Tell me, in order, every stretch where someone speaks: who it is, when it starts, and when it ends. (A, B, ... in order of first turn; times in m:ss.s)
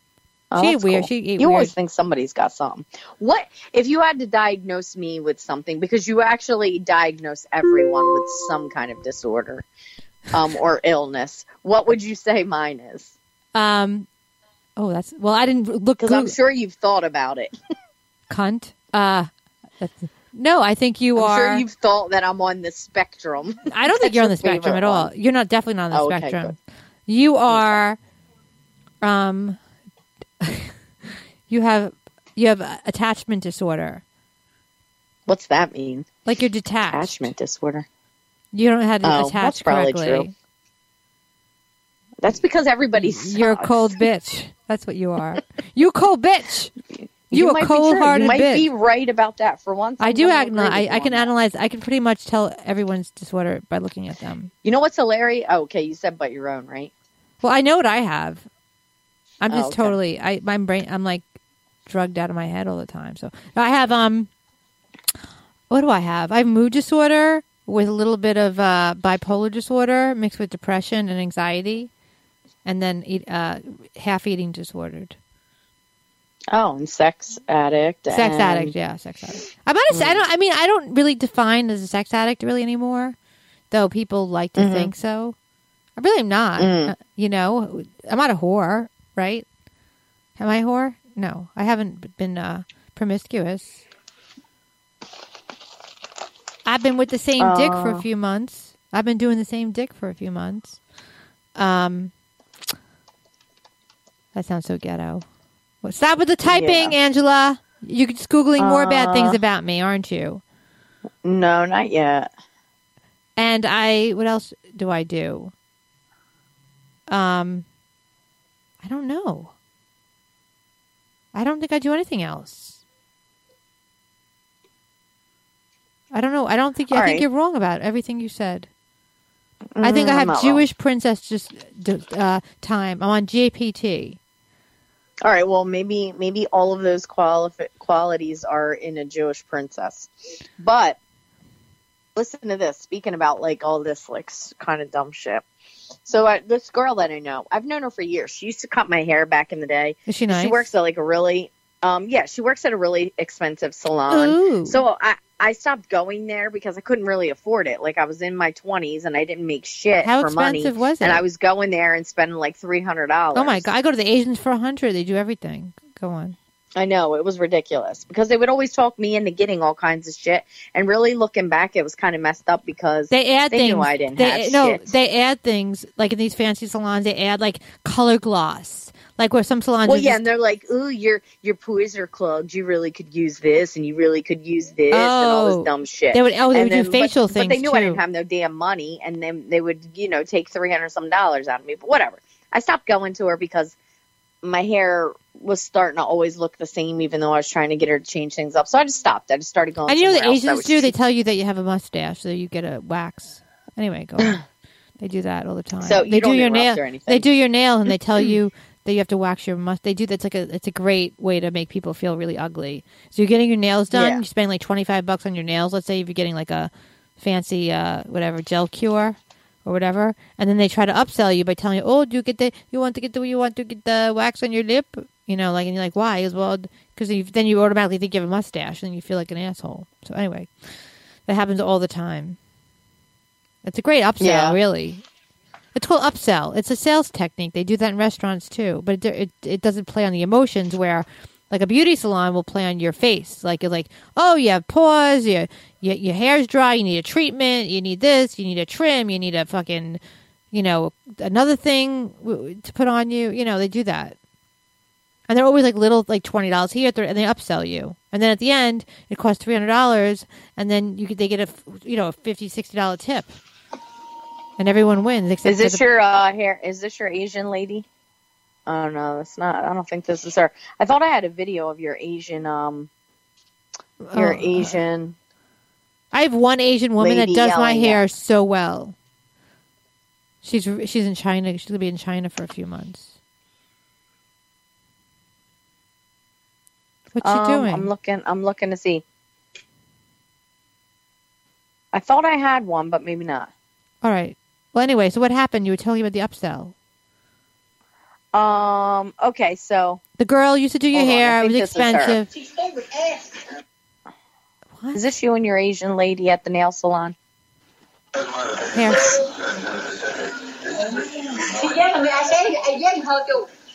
0:00.5-0:09.7 A
0:00.6-0:01.7 B
0:10.3-0:13.1 A
0:13.5-0:14.1 B
0:14.8-0:16.3 B
0:16.0-0:17.5 A
0:18.3-0:19.3 B
0:19.8-0:21.6 B
0:21.2-0:25.1 A
0:23.7-0:26.6 B
0:25.9-0:26.5 A
0:27.1-0:28.0 B
0:27.5-0:27.8 A
0:29.0-0:29.6 B
0:30.4-0:30.7 B
0:31.5-0:34.0 B
0:35.3-0:36.1 A
0:36.2-0:37.3 B
0:36.9-0:37.9 A
0:38.5-0:40.3 B
0:39.0-0:40.3 A
0:42.2-0:44.0 A
0:43.0-0:46.7 B
0:47.3-0:51.3 A
0:47.3-0:48.7 B
0:50.0-0:54.5 B
0:54.6-0:56.9 A
0:57.4-0:58.4 B
0:59.4-1:01.2 B
0:59.5-1:00.0 A
1:01.8-1:04.3 B
1:05.7-1:11.9 B
1:12.6-1:15.2 B
1:16.5-1:18.7 A
1:18.1-1:23.2 B
1:19.9-1:20.2 A
1:23.7-1:25.4 B
1:24.6-1:24.9 A
1:26.0-1:29.4 B
1:26.6-1:26.9 A
1:30.4-1:33.8 B
1:36.6-1:40.8 B
1:37.4-1:38.0 A
1:41.5-1:42.1 B
1:44.3-1:45.2 B
1:45.8-1:50.4 B
1:46.4-1:46.9 A
1:48.6-1:49.4 A
1:51.2-1:52.3 A
1:53.4-1:55.5 B
1:57.1-1:57.6 B
1:58.8-1:59.5 B
2:01.3-2:02.8 B
2:06.1-2:08.7 B
2:06.9-2:07.2 A
2:09.8-2:10.6 A
2:09.8-2:14.2 B
2:15.2-2:21.0 A
2:22.2-2:25.4 A
2:26.0-2:43.7 A
2:30.1-2:30.7 B
2:34.1-2:34.8 B
2:40.0-2:41.2 B
2:43.3-2:46.4 B
2:46.8-2:54.8 A
2:53.1-3:00.2 B
2:59.8-3:13.7 A
3:04.9-3:08.0 B
3:14.4-3:20.9 A
3:19.9-3:24.4 B
3:25.0-3:50.5 B
3:25.8-3:27.3 A
3:33.9-3:34.2 A
3:51.3-3:52.4 B
3:53.6-3:55.0 B
3:54.2-3:54.6 A
3:55.7-4:10.0 B
4:10.5-4:14.2 B
4:15.3-4:23.3 B
4:24.6-4:25.8 B
4:25.4-4:27.8 A
4:28.6-4:32.9 A
4:34.0-4:34.8 B
4:34.1-4:35.2 A
4:36.1-4:38.9 B
4:37.0-4:38.0 A
4:40.4-4:43.1 B
4:47.1-4:47.9 B
4:47.2-4:49.0 A
4:51.9-4:53.5 A
4:54.0-4:56.7 B
4:58.3-5:00.0 A
5:00.2-5:02.3 B
5:00.9-5:02.2 A
5:02.3-5:03.4 C
5:04.8-5:05.1 B
5:04.9-5:07.2 A
5:08.7-5:09.2 B
5:10.1-5:13.5 C